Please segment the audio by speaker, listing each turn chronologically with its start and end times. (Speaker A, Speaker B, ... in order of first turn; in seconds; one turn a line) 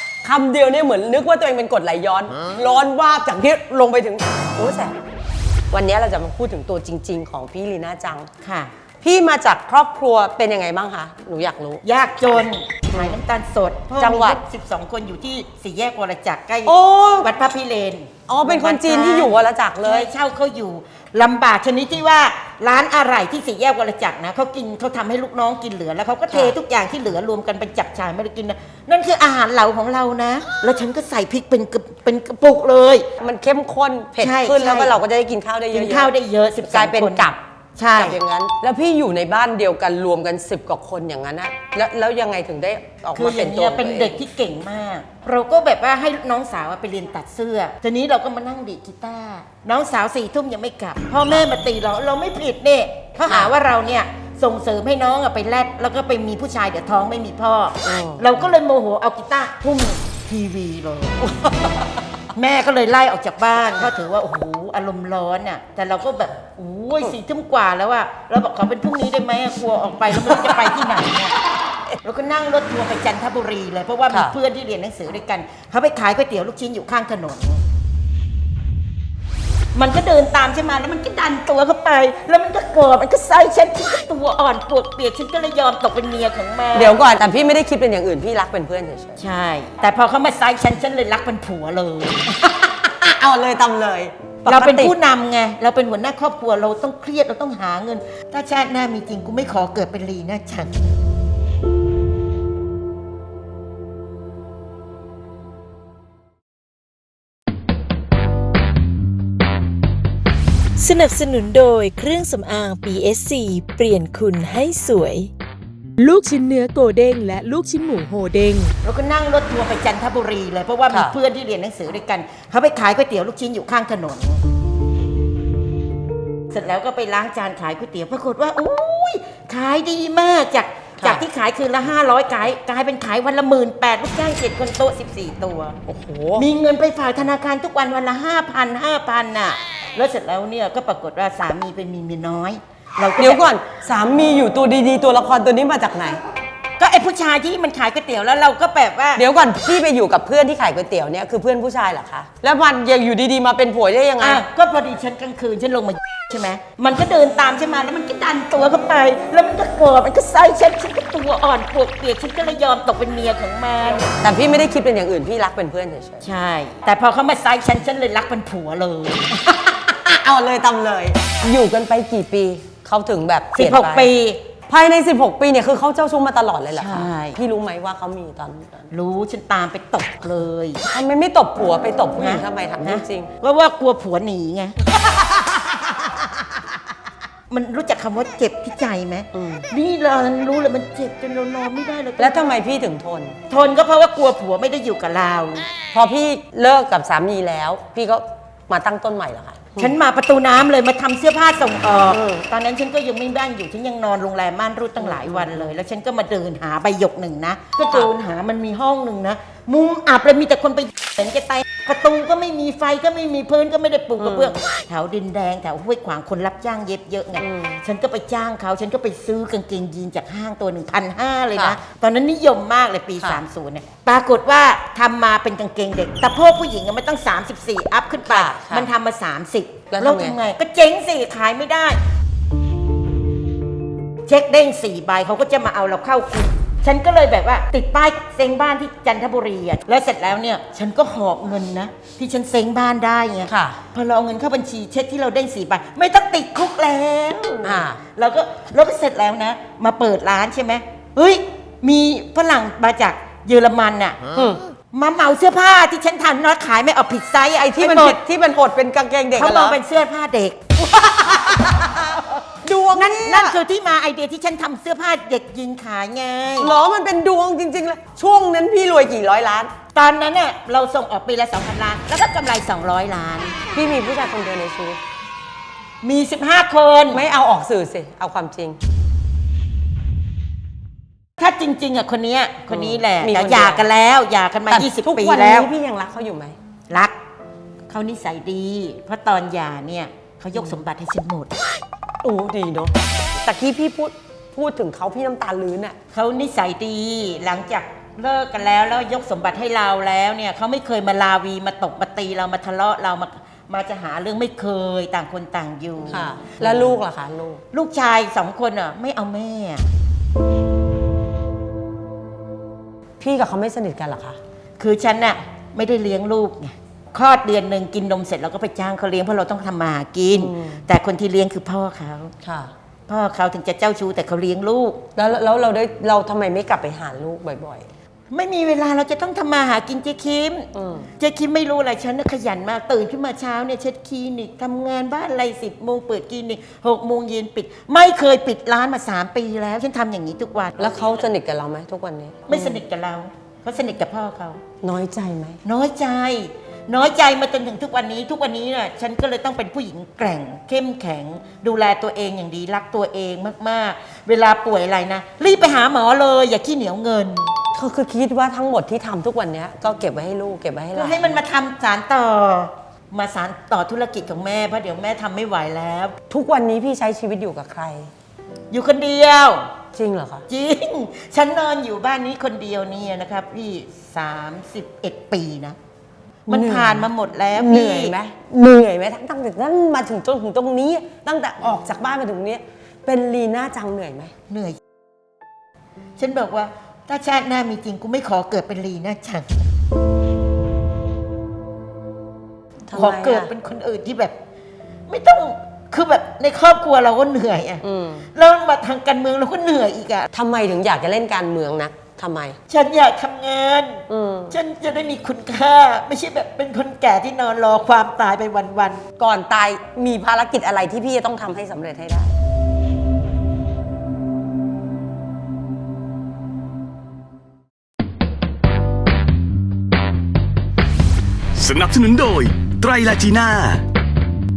Speaker A: 0.2-4.9
Speaker A: 5.7-8.3
Speaker B: 8.4-8.7
Speaker A: 9.0-11.8
Speaker B: 11.8-33.1
Speaker A: 12.9-13.2
Speaker A: 13.9-14.4
Speaker A: 16.6-17.3
Speaker A: 18.3-20.1
Speaker A: 26.3-26.6
Speaker A: 33.2-36.1
Speaker B: 34.2-35.0
Speaker B: 35.7-38.2
Speaker A: 36.7-37.4
Speaker A: 37.9-44.2
Speaker B: 43.1-71.3
Speaker A: 53.2-53.5
Speaker A: 57.8-58.2
Speaker A: 70.2-70.7
Speaker B: 72.0-77.6
Speaker A: 74.1-74.4
Speaker B: 79.8-87.0
Speaker A: 86.7-89.2
Speaker B: 89.2-92.3
Speaker A: 92.3-94.9
Speaker B: 94.5-100.7
Speaker C: 110.8-115.3
Speaker C: 116.0-118.8
Speaker B: 118.8-124.4
Speaker A: 120.9-121.2
Speaker B: 126.5-135.8
Speaker A: 135.9-136.5
Speaker B: 136.4-143.4
Speaker A: 143.2-146.2
Speaker B: 146.8-149.2
Speaker A: 149.2-154.4
Speaker B: 154.2-164.1
Speaker A: 164.2-166.3
Speaker B: 166.2-169.3
Speaker A: 169.3-174.1
Speaker B: 173.6-174.4
Speaker A: 174.7-178.9
Speaker B: 176.7-177.4
Speaker B: 178.9-180.8
Speaker A: 180.8-183.3
Speaker B: 182.2-185.0
Speaker B: 187.5-192.5
Speaker A: 189.3-189.7
Speaker A: 192.2-193.3
Speaker B: 193.5-195.7
Speaker A: 195.9-199.9
Speaker B: 199.8-232.0
Speaker A: 202.1-202.4
Speaker A: 205.0-205.7
Speaker A: 214.2-214.6
Speaker A: 217.4-217.8
Speaker A: 221.5-221.8
Speaker A: 223.2-223.4
Speaker A: 228.2-228.9
Speaker A: 229.9-230.4
Speaker B: 234.3-254.2
Speaker A: 243.5-243.8
Speaker A: 247.6-248.0
Speaker A: 254.3-254.6
Speaker B: 254.9-258.2
Speaker A: 257.6-259.8
Speaker B: 259.4-260.7
Speaker A: 260.9-263.6
Speaker B: 261.4-262.2
Speaker B: 262.9-266.7
Speaker A: 266.6-269.7
Speaker B: 269.9-273.6
Speaker A: 273.7-275.0
Speaker B: 276.0-277.2
Speaker A: 277.1-278.8
Speaker B: 281.4-285.7
Speaker A: 282.7-283.9
Speaker A: 284.7-286.6
Speaker B: 287.9-291.5
Speaker A: 292.2-296.0
Speaker B: 296.1-306.9
Speaker A: 306.1-307.6
Speaker B: 307.7-309.9
Speaker A: 313.2-314.4
Speaker B: 314.8-322.3
Speaker A: 320.3-320.8
Speaker A: 322.4-322.7
Speaker B: 323.1-325.1
Speaker A: 325.2-327.9
Speaker B: 328.3-330.7
Speaker A: 330.7-331.1
Speaker B: 331.2-341.2
Speaker A: 340.8-342.8
Speaker B: 342.5-344.6
Speaker A: 344.8-345.6
Speaker B: 345.6-357.5
Speaker A: 357.7-361.4
Speaker B: 360.9-366.2
Speaker A: 366.3-368.1
Speaker B: 368.7-369.7
Speaker A: 369.9-370.4
Speaker B: 370.5-375.8
Speaker B: 376.5-378.1
Speaker A: 376.5-384.3
Speaker B: 384.5-384.8
Speaker B: 386.2-389.6
Speaker A: 392.9-393.5
Speaker B: 392.9-394.3
Speaker B: 395.1-397.8
Speaker A: 397.8-398.3
Speaker B: 398.3-400.3
Speaker A: 400.3-402.6
Speaker B: 402.7-409.0
Speaker A: 404.1-404.6
Speaker A: 409.2-412.3
Speaker D: 421.6-423.9